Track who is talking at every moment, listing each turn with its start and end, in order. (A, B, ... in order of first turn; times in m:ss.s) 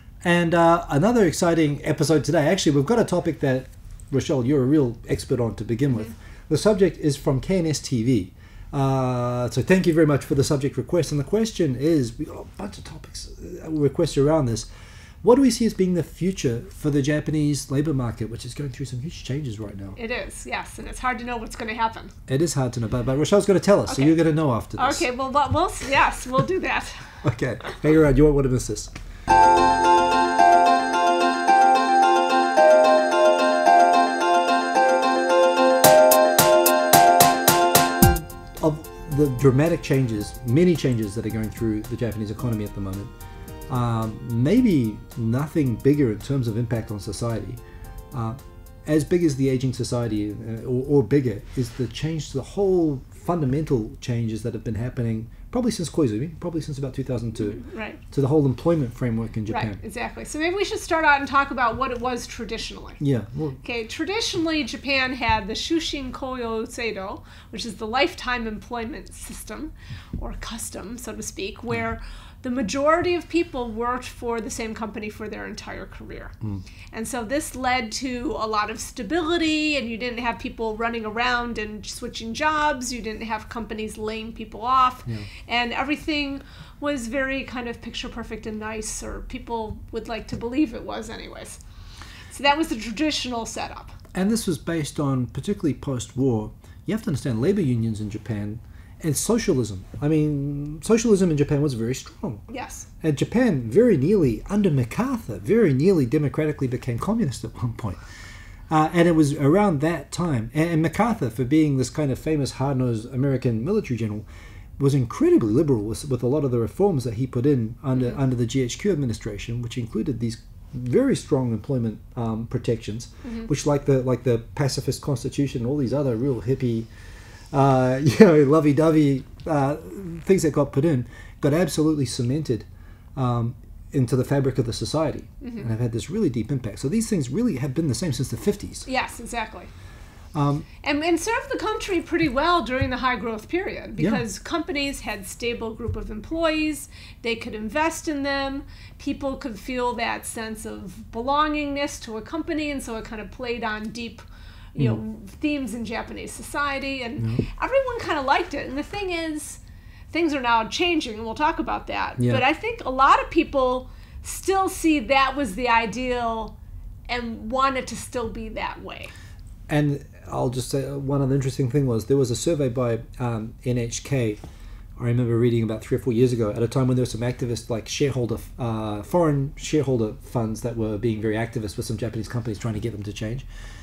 0:00.2-0:14.7 A
0:15.2-0:20.0 A
0:20.0-0:22.1 B
0:22.3-0:25.0 A
0:23.9-0:24.2 B
0:24.7-0:27.1 B
0:27.2-0:28.9 A
0:38.1-0:43.1 A
0:43.7-0:47.6 A
0:48.1-0:59.8 A
0:57.4-0:58.0 B
0:59.5-1:03.0 B
1:03.0-1:03.6 A
1:03.6-1:16.4 B
1:16.9-1:31.6 B
1:32.3-1:33.9 B
1:34.1-1:42.4 A
1:42.5-1:42.9 B
1:43.0-1:48.0 A
1:48.7-1:54.2 A
1:54.8-2:06.9 A
2:03.2-2:03.5 B
2:07.5-2:18.9 A
2:15.4-2:15.7 B
2:18.9-2:19.7 B
2:20.3-2:20.6 A
2:20.8-2:46.5 B
2:24.0-2:24.2 A
2:37.2-2:37.4 A
2:42.2-2:42.4 A
2:47.1-2:49.1 B
2:49.7-2:54.4 A
2:55.0-3:03.4 A